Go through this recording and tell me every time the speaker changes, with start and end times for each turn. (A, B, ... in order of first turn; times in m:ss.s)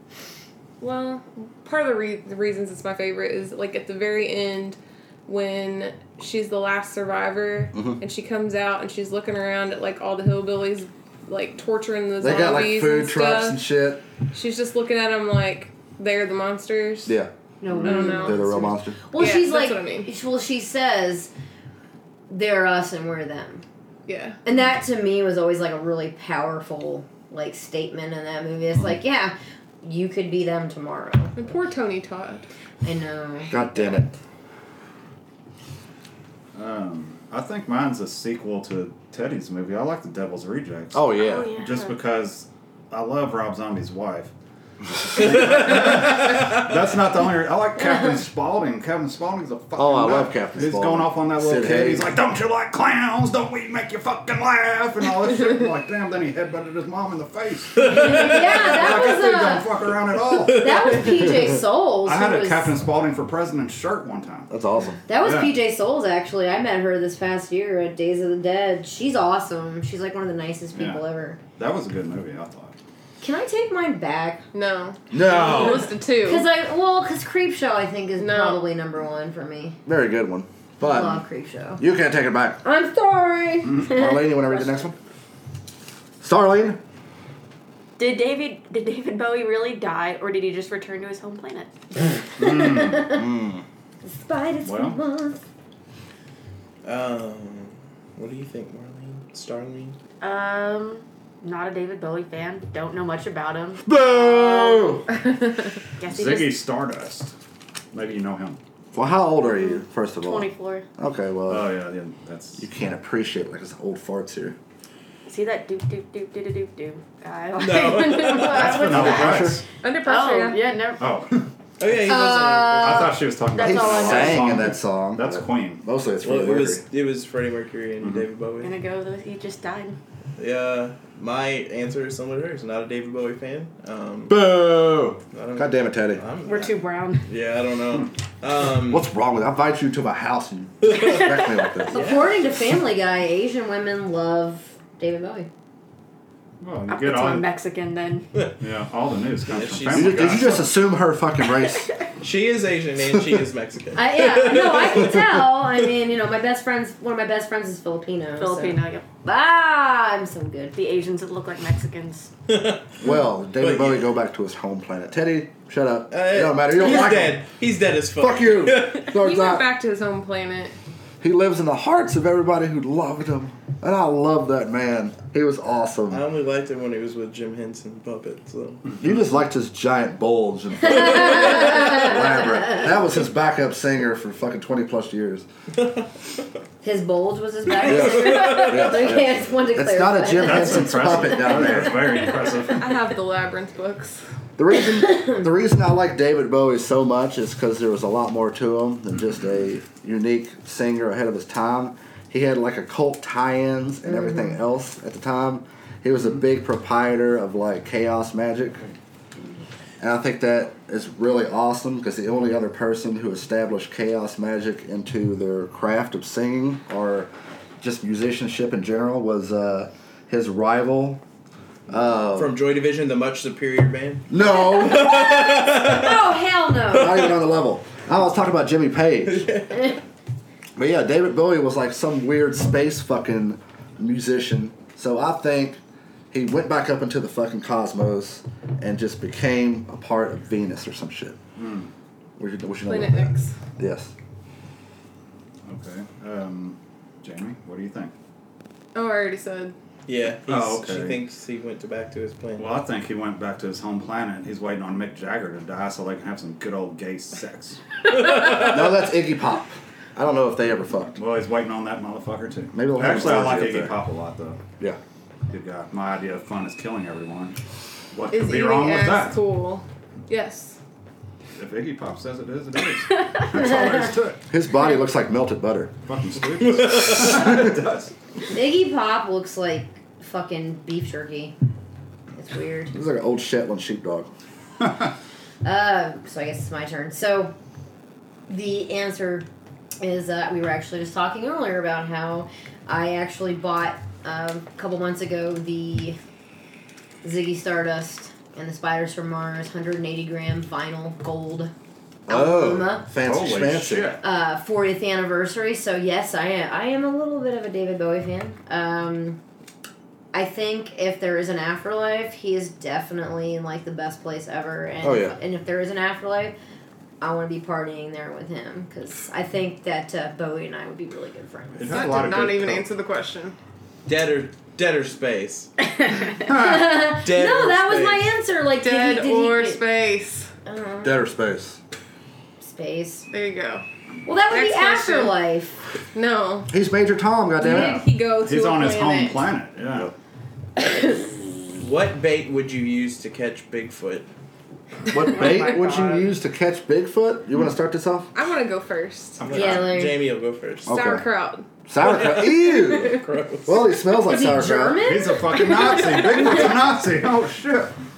0:00.8-0:13.6 A
0:07.7-0:08.0 B
0:12.2-0:14.0 B
0:14.3-0:17.2 A
0:17.1-0:19.0 B
0:17.6-0:18.8 C
0:17.8-0:18.6 A
0:19.1-0:21.3 D
0:19.1-0:20.1 A
0:22.3-0:23.6 D
0:24.1-0:24.4 A
0:24.4-0:31.4 D
0:31.4-0:32.5 A
0:32.8-0:33.6 D
0:33.5-0:34.1 B
0:36.5-0:44.3 E
0:40.9-0:41.5 B
0:41.2-0:42.0 C
0:45.1-0:45.6 B
0:45.1-1:01.3 E
0:45.4-0:46.4 F
0:49.8-0:52.1 B
0:57.8-0:58.6 F
0:57.8-0:59.7 D
1:00.4-1:01.0 F
1:00.5-1:02.8 D
1:02.0-1:04.5 E
1:04.5-1:05.0 B
1:05.1-1:11.4 D
1:05.2-1:05.5 E
1:10.7-1:11.0 E
1:11.6-1:12.8 E
1:13.2-1:14.4 D
1:14.5-1:16.5 A
1:15.1-1:15.9 B
1:16.2-1:19.8 D
1:18.2-1:18.6 A
1:19.9-1:21.2 B
1:20.8-1:21.8 D
1:21.8-1:22.6 B
1:22.6-1:24.6 D
1:23.8-1:25.0 B
1:26.2-1:26.8 B
1:28.0-1:31.7 C
1:32.4-1:33.2 D
1:32.4-1:33.1 E
1:33.1-1:33.6 B
1:34.0-1:35.4 D
1:34.6-1:35.0 E
1:36.8-1:40.0 F
1:40.2-1:44.9 C
1:43.8-1:45.1 B
1:46.0-1:46.6 C
1:46.0-1:47.3 E
1:47.9-1:48.6 E
1:48.9-1:51.7 B
1:49.4-1:50.9 C
1:51.5-1:52.6 E
1:52.6-1:54.6 B
1:55.3-2:01.1 C
1:57.6-1:59.2 F
1:58.3-1:59.6 E
1:58.8-1:59.6 B
1:59.8-2:00.7 A
2:01.0-2:01.5 E
2:01.8-2:03.1 F
2:02.1-2:03.2 D
2:02.7-2:05.8 E
2:03.5-2:04.6 C
2:03.6-2:06.8 B
2:06.2-2:08.7 F
2:08.6-2:10.0 C
2:10.4-2:14.4 F
2:14.3-2:16.2 B
2:15.3-2:19.1 F
2:16.4-2:17.3 C
2:18.9-2:22.1 B
2:20.8-2:21.2 F
2:21.8-2:22.4 F
2:21.9-2:25.5 D
2:26.6-2:27.5 E
2:26.9-2:28.3 C
2:28.6-2:30.7 E
2:29.5-2:30.7 F
2:29.9-2:31.9 B
2:32.2-2:35.4 F
2:33.9-2:40.7 D
2:38.4-2:39.0 C
2:40.7-2:42.3 C
2:42.5-2:43.0 F
2:43.0-2:47.4 B
2:43.6-2:44.1 F
2:46.1-2:49.1 F
2:48.2-2:49.7 B
2:49.1-2:50.7 A
2:51.2-2:56.2 B
2:56.1-2:58.8 F
2:59.0-3:05.5 B
3:00.8-3:02.9 D
3:06.8-3:12.3 D
3:07.8-3:12.1 B
3:07.9-3:08.8 F
3:10.4-3:13.0 E
3:12.7-3:14.2 A
3:14.6-3:28.8 B
3:15.1-3:15.4 D
3:24.1-3:24.6 D
3:30.0-3:41.2 B
3:41.9-3:42.6 B
3:42.3-3:46.2 F
3:44.3-3:45.3 B
3:44.5-3:47.3 D
3:46.9-3:49.5 B
3:49.3-3:49.8 F
3:50.8-3:55.8 B
3:56.3-4:01.4 B
4:01.6-4:01.9 E
4:02.4-4:04.1 B
4:02.9-4:03.6 A
4:05.7-4:08.1 E
4:09.0-4:09.8 A
4:10.1-4:12.7 F
4:10.5-4:11.2 E
4:12.6-4:17.8 E
4:18.5-4:21.2 B
4:21.2-4:24.6 E
4:22.7-4:24.0 B
4:25.5-4:27.6 E
4:28.1-4:29.4 E
4:28.3-4:30.8 A
4:31.6-4:34.4 E
4:33.6-4:34.0 D
4:34.5-4:35.9 B
4:36.1-4:38.1 E
4:36.9-4:37.3 F
4:38.5-4:41.6 D
4:42.4-4:43.0 D
4:42.9-4:44.3 B
4:45.6-4:47.5 D
4:48.5-4:49.5 D
4:50.0-4:56.2 D
4:57.2-5:01.7 D
5:02.3-5:04.2 B
5:02.3-5:03.1 D
5:03.2-5:04.2 E
5:04.2-5:09.4 D
5:10.3-5:16.6 D
5:15.0-5:15.4 B
5:17.2-5:22.2 D
5:21.8-5:22.9 E
5:21.9-5:23.6 A
5:24.1-5:25.7 F
5:26.2-5:29.8 D
5:26.5-5:26.8 E
5:26.9-5:28.4 F
5:28.8-5:30.5 A
5:30.6-5:31.2 D
5:31.0-5:31.8 B
5:32.6-5:33.3 D
5:33.3-5:33.8 A
5:34.3-5:35.8 D
5:34.5-5:35.4 A
5:36.1-5:36.7 A
5:36.7-5:38.0 B
5:37.6-5:39.5 A
5:37.6-5:40.1 E
5:41.8-5:44.3 F
5:45.1-5:48.3 B
5:45.2-5:46.3 C
5:48.3-5:49.4 A
5:49.4-5:50.0 E
5:49.4-5:50.9 F
5:49.5-5:50.2 D
5:50.9-5:51.3 B
5:50.9-5:51.7 A
5:51.9-5:55.0 B
5:52.0-5:53.8 F
5:54.2-5:55.8 D
5:55.0-5:57.9 E